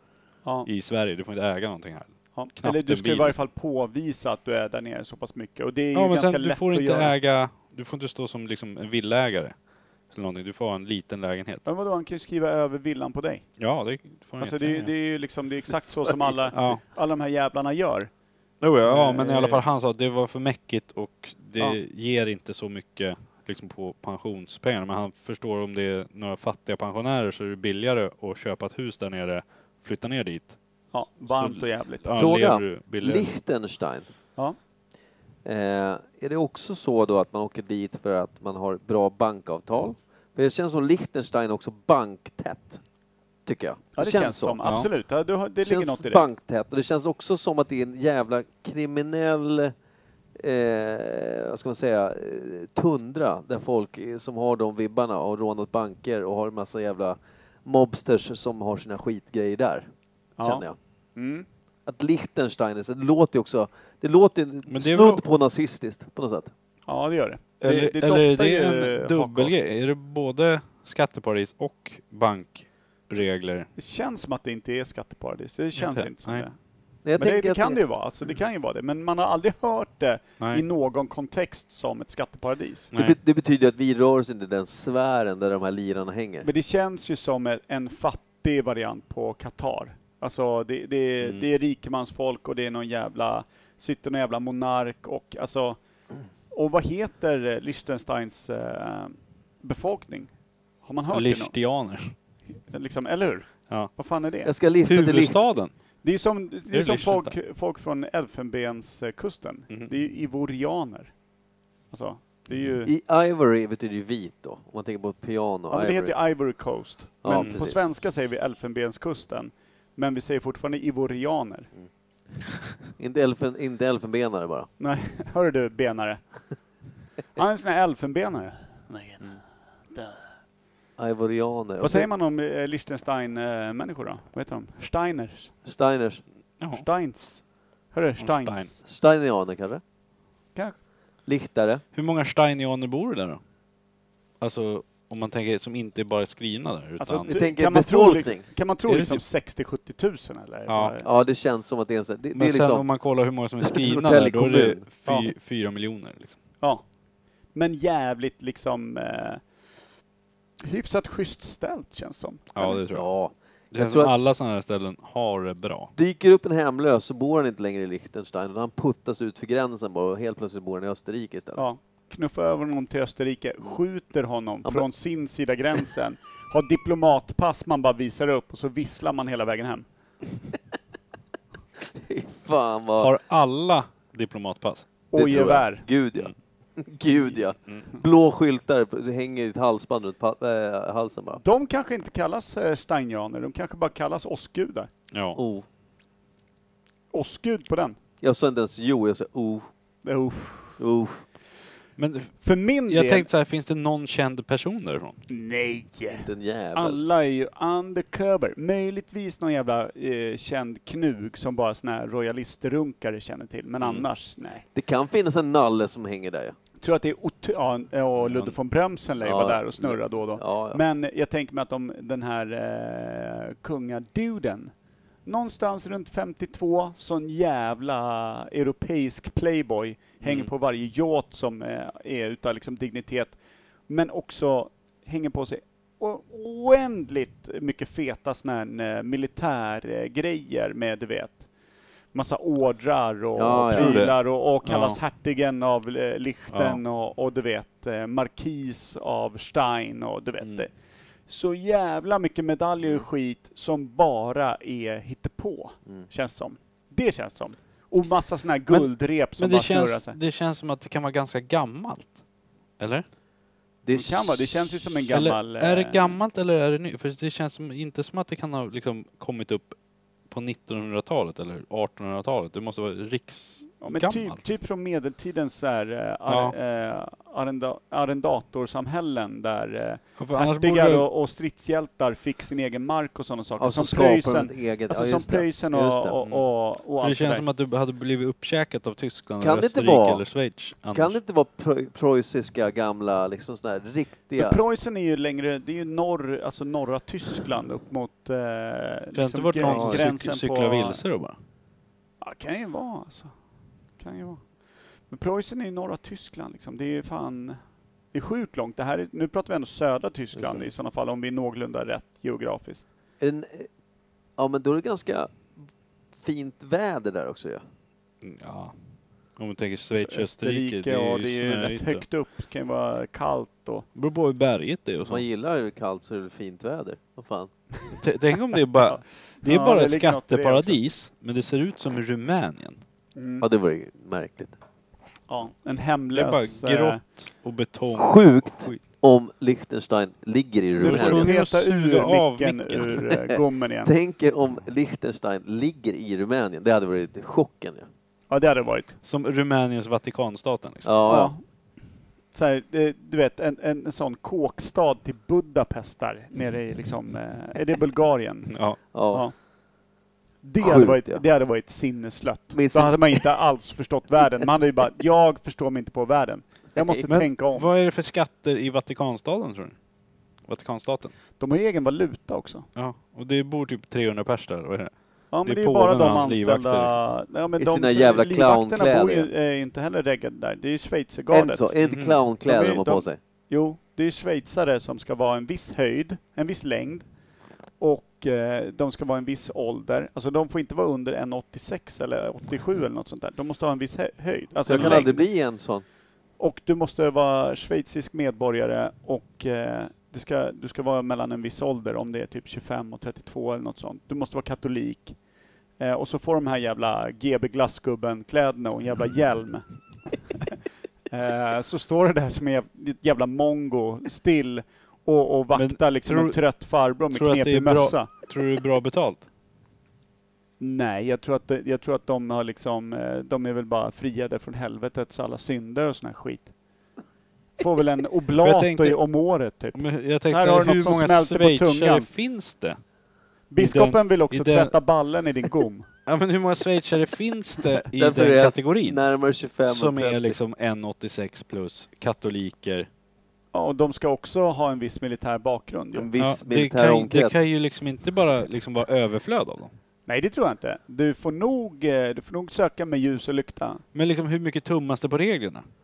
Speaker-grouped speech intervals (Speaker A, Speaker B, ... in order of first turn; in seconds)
Speaker A: 0.7-3.3, 5.9-9.5, 10.1-11.6, 13.6-14.9, 16.5-16.8, 18.6-30.6, 31.2-33.3, 64.7-65.2, 67.6-73.7, 75.8-76.4, 101.1-102.1, 104.8-105.7, 106.7-107.3, 117.3-117.6, 136.6-136.8, 138.2-138.7, 141.9-143.4, 144.4-147.3, 148.9-149.2, 150.7-150.9, 152.3-156.4, 162.5-163.1, 163.7-165.9, 183.0-184.9, 195.1-195.4, 202.0-205.2, 213.8-214.1, 218.2-218.5, 230.2-230.5, 243.7-245.0, 246.5-246.8, 258.7-262.2, 262.8-263.0, 265.1-269.8, 270.3-274.4, 276.3-276.5, 280.2-281.1, 287.0-291.2, 299.1-301.4, 318.2-318.7, 319.4-322.0, 323.9-325.2, 327.9-332.8, 336.1-338.8, 340.8-343.1, 349.0-350.9, 358.5-358.8, 367.1-369.8, 370.4-371.1, 372.8-377.0, 381.8-382.2, 394.7-395.0, 415.5-419.2, 428.4-429.0, 429.7-432.8, 433.6-434.8, 436.1-439.0, 439.7-442.9, 446.2-449.7, 453.9-455.6
Speaker B: 2.3-7.1, 11.6-13.4, 14.4-18.1, 18.8-19.6, 30.9-32.1, 44.0-46.2, 60.4-60.6, 61.1-61.5, 66.9-69.6, 73.8-76.5, 77.2-82.9, 86.4-95.8, 96.5-100.3, 100.8-101.5, 102.7-104.5, 106.0-111.1, 111.9-112.9, 115.7-121.7, 124.8-126.2, 127.3-129.4, 129.9-130.3, 131.8-135.5, 136.7-138.8, 147.0-151.1, 157.5-159.4, 160.6-162.7, 171.6-179.8, 185.1-185.8, 191.4-194.9, 197.1-198.0, 200.0-200.8, 202.4-203.3, 205.3-214.6, 216.8-224.7, 225.2-241.5, 242.1-250.7, 251.3-260.2, 263.9-266.2, 273.8-287.4, 294.4-301.0, 302.2-303.3, 304.0-304.4, 305.1-307.6, 308.1-312.9, 319.9-323.9, 328.9-330.8, 333.1-333.4, 335.3-337.0, 340.8-343.9, 348.3-348.9, 351.1-351.4, 352.3-359.3, 360.4-367.7, 371.4-372.7, 375.3-381.7, 382.4-387.1, 387.8-395.2, 396.4-405.2, 405.8-410.5, 411.1-418.1, 420.6-426.5, 427.6-432.1, 433.5-435.9, 443.5-446.1, 450.1-453.8
Speaker C: 32.1-34.1, 35.4-42.8, 43.5-44.6, 45.6-49.7, 50.4-59.9, 60.4-60.8, 61.9-66.5, 77.0-77.8, 82.9-86.5, 104.4-105.4, 112.8-116.1, 117.2-117.8, 123.0-124.7, 131.0-132.1, 135.7-136.2, 138.8-139.8, 141.2-141.8, 147.3-148.4, 151.0-152.9, 153.6-154.8, 162.9-164.1, 165.9-171.6, 181.8-183.1, 185.1-191.4, 195.3-195.7, 198.2-199.7, 200.8-201.2, 206.1-207.0, 214.7-216.6, 219.2-220.8, 243.3-244.0, 263.8-264.4, 283.6-286.2, 289.4-290.2, 290.9-294.6, 299.6-300.0, 310.4-310.7, 313.2-313.7, 314.4-315.6, 316.1-317.6, 325.0-327.5, 333.4-334.6, 337.9-341.3, 343.3-347.9, 350.8-351.3, 358.9-359.2, 360.6-361.2, 362.5-363.3, 366.8-367.0, 377.6-379.3, 381.3-383.2, 394.7-395.8, 437.9-440.4, 445.9-447.4